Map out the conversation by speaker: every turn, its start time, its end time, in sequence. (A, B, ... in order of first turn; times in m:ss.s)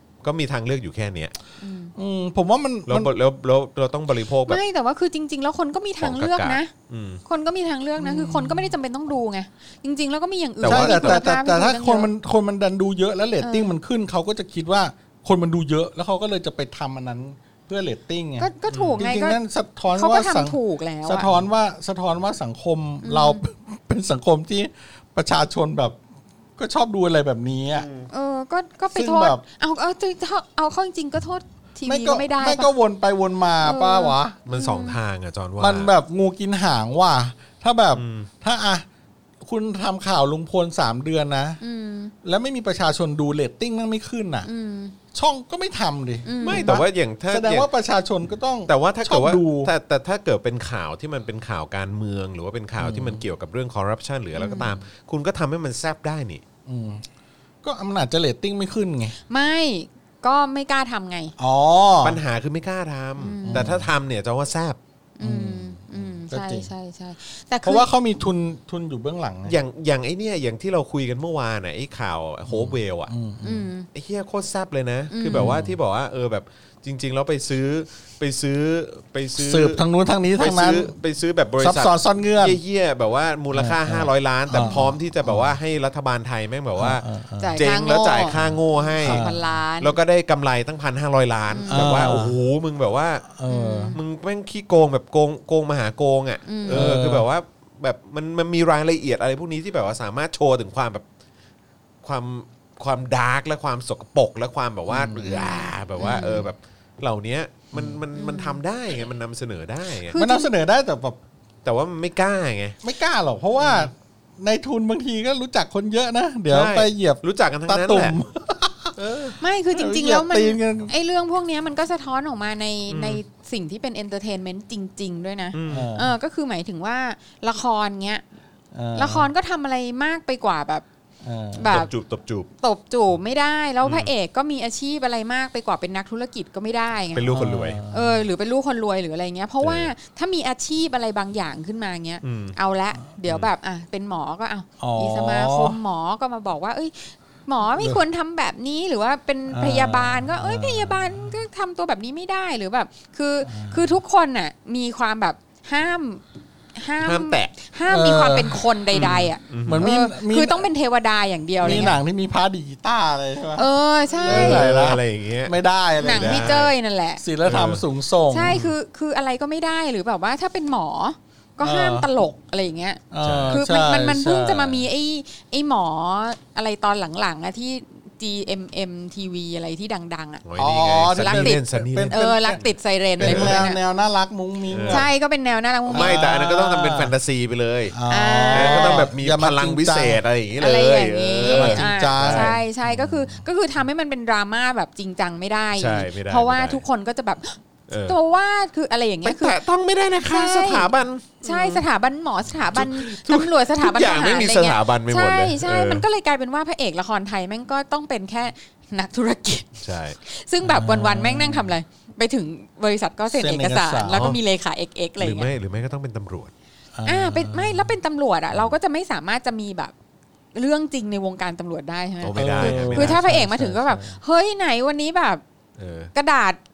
0:00.2-0:01.3 A
0:01.6-0:01.9 B
0:02.0-0:03.1 C
0:02.9-0:04.6 A
0:04.5-0:06.7 B
0:06.0-0:07.2 A
0:07.2-0:12.1 B
0:08.0-0:08.7 C
0:10.6-0:11.2 A
0:10.6-0:18.5 C
0:13.4-0:13.7 B
0:18.4-0:19.4 B
0:18.7-0:19.0 A
0:19.0-0:26.0 C
0:19.9-0:21.3 B
0:23.0-0:23.4 B
0:26.6-0:27.9 C
0:27.7-0:28.1 A
0:28.1-0:32.7 B
0:28.9-0:29.4 C
0:31.8-0:34.4 C
0:33.6-0:35.0 B
0:34.4-0:35.9 A
0:35.6-0:38.8 C
0:37.9-0:38.3 A
0:39.4-0:41.6 C
0:41.6-0:42.1 B
0:42.2-0:44.5 C
0:44.4-0:44.9 B
0:45.1-0:49.7 C
0:46.2-0:46.8 B
0:46.4-0:47.7 A
0:48.7-0:56.4 A
0:52.8-0:53.2 C
0:54.3-0:54.8 B
0:56.6-0:57.0 C
0:57.6-0:59.2 C
0:59.3-1:01.3 B
1:01.4-1:02.2 C
1:02.0-1:04.8 A
1:03.2-1:03.7 B
1:03.5-1:03.9 C
1:05.2-1:07.9 B
1:05.2-1:06.7 C
1:07.6-1:09.6 C
1:09.4-1:13.1 A
1:12.5-1:13.7 C
1:13.4-1:13.9 B
1:13.9-1:19.8 A
1:15.1-1:15.6 B
1:15.3-1:15.8 C
1:19.4-1:20.9 C
1:20.4-1:27.0 A
1:21.6-1:22.6 C
1:23.5-1:25.6 C
1:24.6-1:24.9 B
1:26.8-1:27.6 C
1:27.4-1:29.9 B
1:27.6-1:33.2 A
1:29.0-1:29.4 C
1:31.5-1:32.1 B
1:31.7-1:32.4 C
1:33.3-1:34.0 C
1:33.5-1:34.0 B
1:33.9-1:41.0 A
1:36.4-1:36.9 B
1:36.7-1:37.2 C
1:42.0-1:50.1 A
1:44.9-1:45.4 C
1:45.3-1:46.5 B
1:48.1-1:48.6 B
1:50.1-1:50.5 B
1:50.1-1:51.2 C
1:51.6-1:52.8 A
1:52.8-2:00.9 C
1:53.6-1:53.9 A
1:56.5-1:58.2 A
1:59.0-1:59.4 A
1:59.4-2:08.2 B
2:02.9-2:03.2 A
2:05.5-2:05.9 A
2:05.7-2:06.1 C
2:08.7-2:09.3 C
2:08.9-2:10.8 B
2:11.2-2:11.8 C
2:11.5-2:11.9 B
2:11.7-2:12.5 A
2:12.6-2:17.2 B
2:13.8-2:14.1 A
2:17.1-2:17.8 A
2:17.3-2:18.2 C
2:17.9-2:36.2 B
2:19.6-2:19.9 A
2:22.2-2:22.6 A
2:24.8-2:25.8 C
2:29.5-2:31.3 C
2:33.4-2:34.0 C
2:36.8-2:42.0 B
2:37.0-2:37.5 A
2:37.9-2:38.6 C
2:38.9-2:39.9 A
2:39.6-2:40.6 C
2:41.6-2:46.7 C
2:41.6-2:42.0 A
2:43.6-2:44.6 B
2:44.2-2:46.7 A
2:46.0-2:47.2 B
2:47.2-2:48.6 C
2:47.4-2:47.8 A
2:48.3-3:00.4 B
2:48.4-2:48.7 A
2:51.6-2:52.1 C
2:53.1-2:54.8 C
2:53.2-2:53.6 A
3:00.4-3:02.2 A
3:00.6-3:02.6 C
3:01.1-3:03.8 B
3:03.2-3:05.1 C
3:03.2-3:03.6 A
3:04.7-3:05.1 A
3:04.9-3:06.3 B
3:05.9-3:07.1 C
3:05.9-3:08.0 A
3:07.9-3:10.2 C
3:08.1-3:09.1 B
3:08.5-3:12.6 A
3:10.6-3:19.6 B
3:11.4-3:13.4 C
3:15.8-3:16.8 A
3:17.9-3:18.2 A
3:19.2-3:21.8 A
3:20.2-3:20.9 B
3:21.4-3:35.5 B
3:22.7-3:26.0 A
3:29.8-3:30.2 A
3:30.6-3:31.7 C
3:33.3-3:34.3 C
3:34.1-3:34.4 A
3:35.2-3:36.5 A
3:36.9-3:37.9 C
3:37.0-3:39.9 B
3:40.5-3:45.4 B
3:42.2-3:43.2 A
3:42.3-3:44.2 C
3:45.8-3:46.1 A
3:46.1-3:46.6 B